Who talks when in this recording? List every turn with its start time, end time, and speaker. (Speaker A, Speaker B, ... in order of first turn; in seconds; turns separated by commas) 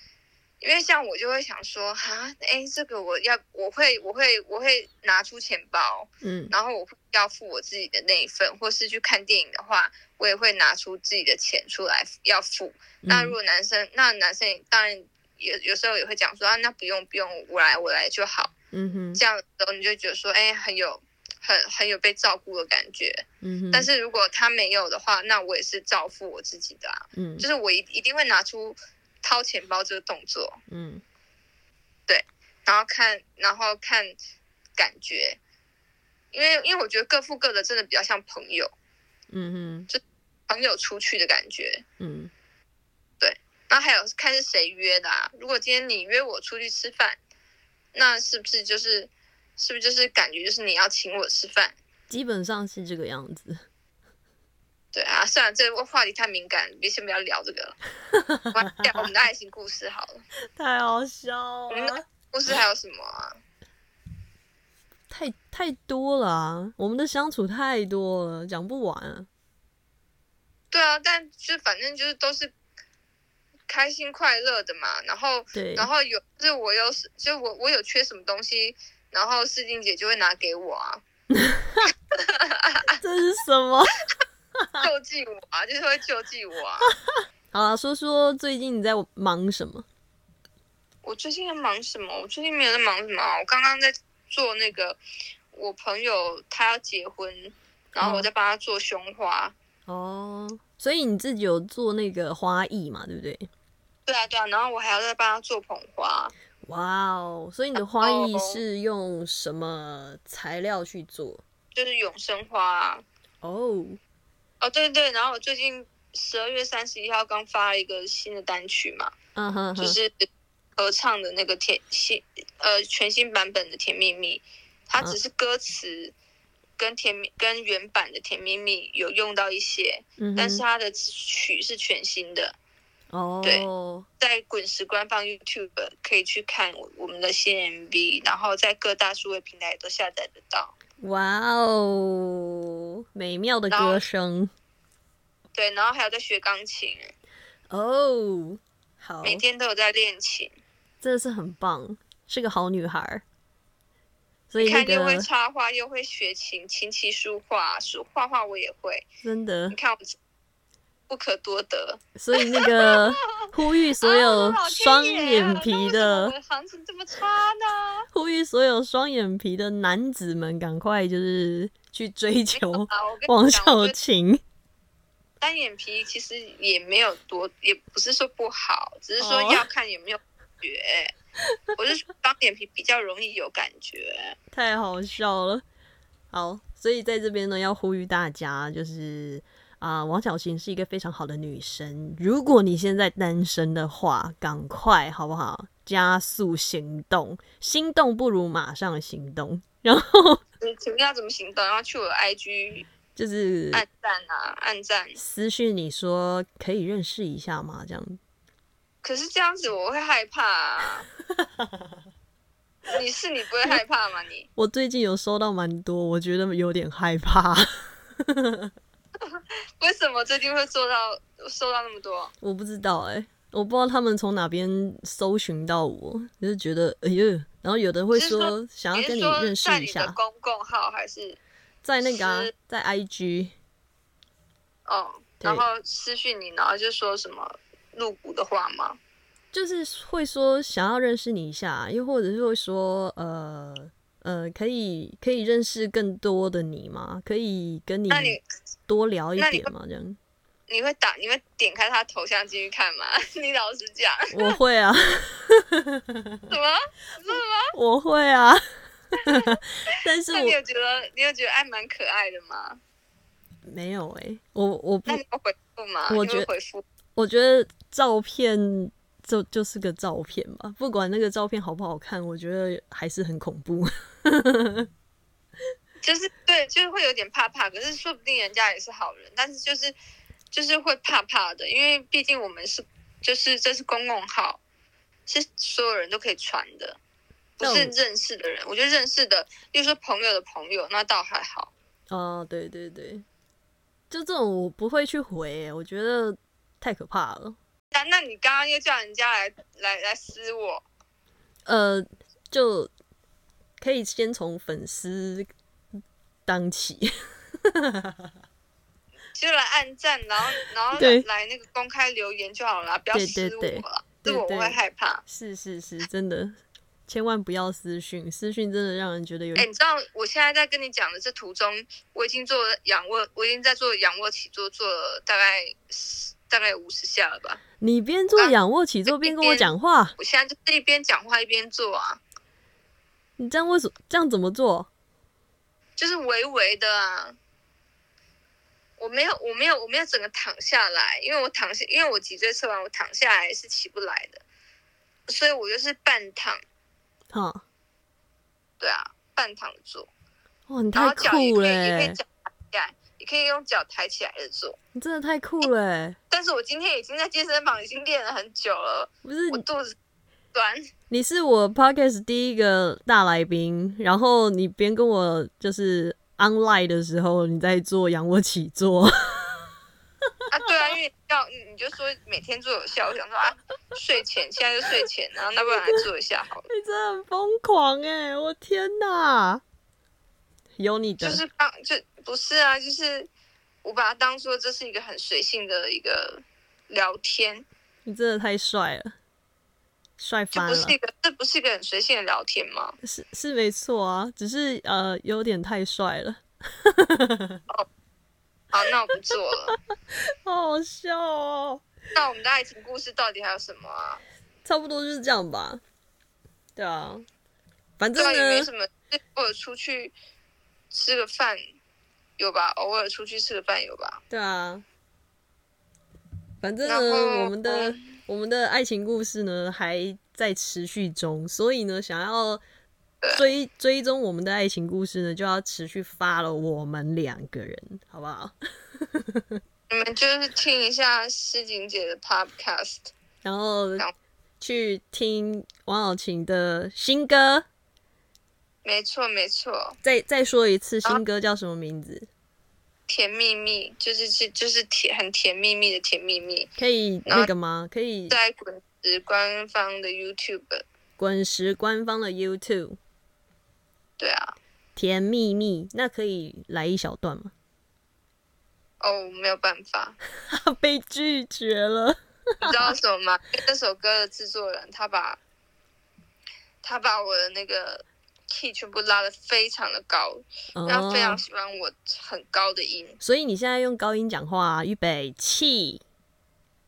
Speaker A: 0.6-18.5, Speaker B: 6.2-6.5, Speaker B: 13.0-13.3, Speaker B: 18.7-19.2, Speaker A: 19.1-30.6, Speaker B: 23.4-23.9, Speaker B: 27.1-27.4, Speaker B: 30.7-31.0, Speaker A: 32.1-34.1, Speaker A: 34.8-35.4, Speaker A: 36.3-38.7, Speaker B: 39.3-39.9, Speaker A: 39.9-41.8, Speaker B: 42.0-42.3, Speaker A: 43.2-47.2, Speaker A: 47.9-51.7, Speaker B: 52.1-53.6, Speaker A: 54.9-57.8, Speaker B: 58.1-58.5, Speaker A: 58.5-60.2, Speaker B: 60.5-62.0, Speaker A: 61.7-63.4, Speaker B: 65.1-69.3, Speaker A: 70.7-72.5, Speaker A: 73.7-81.0, Speaker B: 75.5-75.9, Speaker B: 81.3-81.8, Speaker A: 82.1-83.0, Speaker B: 83.0-83.9, Speaker B: 84.6-84.9, Speaker A: 84.8-86.9, Speaker B: 87.1-89.8, Speaker A: 91.0-95.0, Speaker A: 95.5-99.5, Speaker B: 98.0-98.3, Speaker B: 99.9-103.5, Speaker A: 104.1-106.3, Speaker B: 106.6-111.4, Speaker A: 107.8-108.6, Speaker A: 111.7-113.0, Speaker B: 113.4-114.0, Speaker A: 114.6-119.1, Speaker B: 119.3-120.0, Speaker A: 119.8-126.1, Speaker A: 126.8-132.5, Speaker B: 130.2-130.6, Speaker B: 133.1-134.1, Speaker A: 133.4-133.7, Speaker A: 134.2-140.7, Speaker B: 141.0-144.5, Speaker A: 143.7-144.0, Speaker A: 145.5-147.1, Speaker B: 147.7-149.4, Speaker A: 149.2-150.5, Speaker B: 151.0-153.2, Speaker B: 154.5-155.3, Speaker A: 154.6-159.1, Speaker B: 159.2-159.8, Speaker A: 159.7-160.2, Speaker A: 161.1-163.5, Speaker B: 162.2-166.3, Speaker A: 164.0-168.1, Speaker B: 168.1-174.4, Speaker A: 172.5-174.0, Speaker A: 175.4-181.1, Speaker B: 179.2-179.6, Speaker A: 181.8-184.4, Speaker B: 184.5-185.6, Speaker B: 186.3-200.4, Speaker A: 200.6-202.8, Speaker B: 203.2-203.8, Speaker A: 203.7-205.2, Speaker B: 205.2-208.2, Speaker A: 209.0-211.1, Speaker A: 212.9-214.5, Speaker B: 214.6-218.7, Speaker A: 219.2-222.3, Speaker B: 222.4-230.2, Speaker A: 228.1-231.4, Speaker B: 231.8-233.5, Speaker A: 232.0-232.5, Speaker A: 234.9-239.0, Speaker B: 239.5-248.4, Speaker A: 248.1-248.4, Speaker B: 248.9-250.2, Speaker A: 249.4-249.7, Speaker A: 250.7-254.6, Speaker B: 254.3-256.4, Speaker A: 256.5-257.7, Speaker B: 257.7-258.6, Speaker A: 259.2-259.6, Speaker B: 259.2-260.6, Speaker A: 260.3-262.8, Speaker B: 263.6-265.2, Speaker A: 265.1-266.8, Speaker B: 266.1-266.5, Speaker B: 267.1-274.9, Speaker A: 276.0-279.9, Speaker A: 280.5-284.6, Speaker A: 285.3-287.0, Speaker A: 287.6-291.7, Speaker B: 287.6-287.9, Speaker B: 292.1-293.2, Speaker B: 294.1-297.6, Speaker A: 297.9-300.8, Speaker B: 301.6-302.9, Speaker B: 303.8-305.5, Speaker B: 306.4-308.3, Speaker A: 309.3-315.2, Speaker B: 310.9-311.2, Speaker B: 313.1-316.5, Speaker B: 317.1-319.6, Speaker A: 319.6-327.6, Speaker B: 327.8-330.1, Speaker A: 329.1-332.2, Speaker B: 333.4-334.9, Speaker A: 336.0-337.4, Speaker A: 339.0-344.4, Speaker A: 345.3-346.6, Speaker B: 347.3-347.6, Speaker A: 348.8-350.1, Speaker B: 350.7-352.2, Speaker A: 350.9-354.8, Speaker B: 354.9-356.2, Speaker A: 356.3-359.9, Speaker B: 359.2-359.6, Speaker A: 360.5-360.9, Speaker B: 361.1-369.7, Speaker A: 370.5-376.7, Speaker B: 376.7-379.6, Speaker B: 380.8-381.4, Speaker A: 381.2-383.3, Speaker A: 383.8-387.6, Speaker B: 388.0-389.1, Speaker B: 390.2-390.9, Speaker A: 390.5-393.0, Speaker B: 393.0-397.6, Speaker A: 398.7-399.7, Speaker B: 399.7-401.8, Speaker A: 402.1-404.2, Speaker B: 404.6-405.8, Speaker B: 406.8-407.2, Speaker B: 408.0-408.7, Speaker A: 408.2-410.1, Speaker A: 410.9-411.6, Speaker A: 412.4-414.2, Speaker B: 414.3-414.8, Speaker B: 416.6-422.6, Speaker A: 416.8-418.1, Speaker A: 423.2-423.5, Speaker B: 423.3-429.6, Speaker A: 429.9-433.1, Speaker B: 433.4-434.1, Speaker B: 434.6-437.6, Speaker A: 438.8-439.9, Speaker B: 440.0-442.3, Speaker A: 443.1-446.7, Speaker B: 446.8-448.4, Speaker A: 448.3-450.8, Speaker B: 451.2-453.0, Speaker A: 454.2-454.6, Speaker B: 454.9-457.5, Speaker A: 459.0-460.2, Speaker B: 460.4-462.8, Speaker A: 462.6-465.4, Speaker A: 466.8-473.2, Speaker B: 470.8-471.4, Speaker B: 473.2-476.0